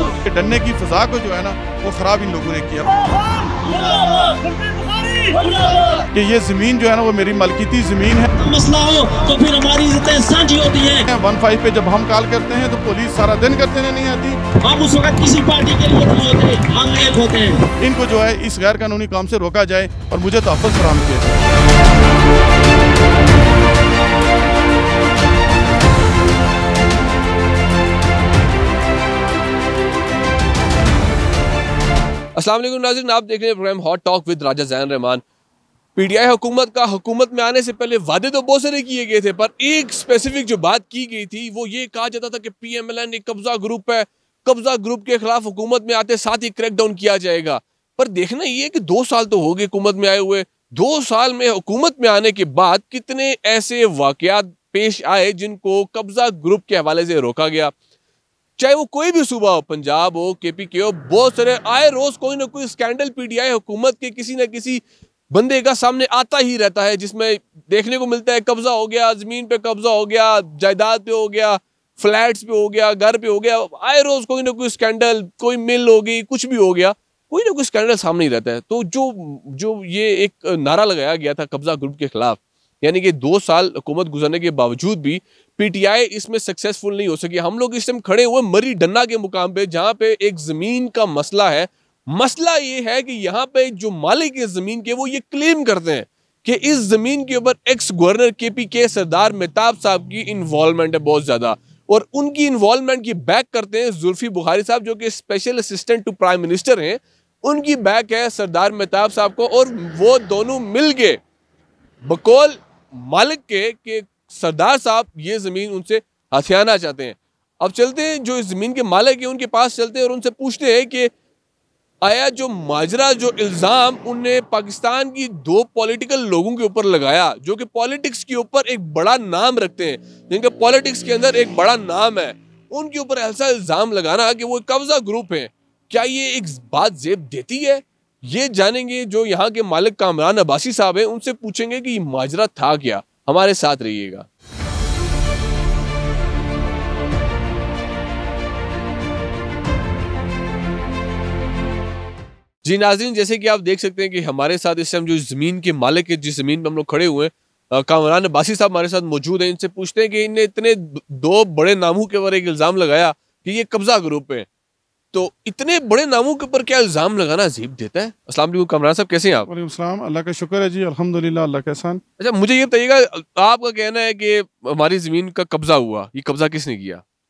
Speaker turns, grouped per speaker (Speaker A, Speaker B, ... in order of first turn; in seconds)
Speaker A: 0.2-3.4, 6.1-8.3, 11.1-14.4, 17.8-21.4, 169.5-172.0
Speaker B: 3.5-6.0, 8.3-11.1, 14.6-17.6
Speaker C: 32.4-35.2, 36.0-57.7, 58.6-111.2, 112.0-121.1, 122.0-144.3, 152.6-164.5, 165.1-169.5, 172.2-177.0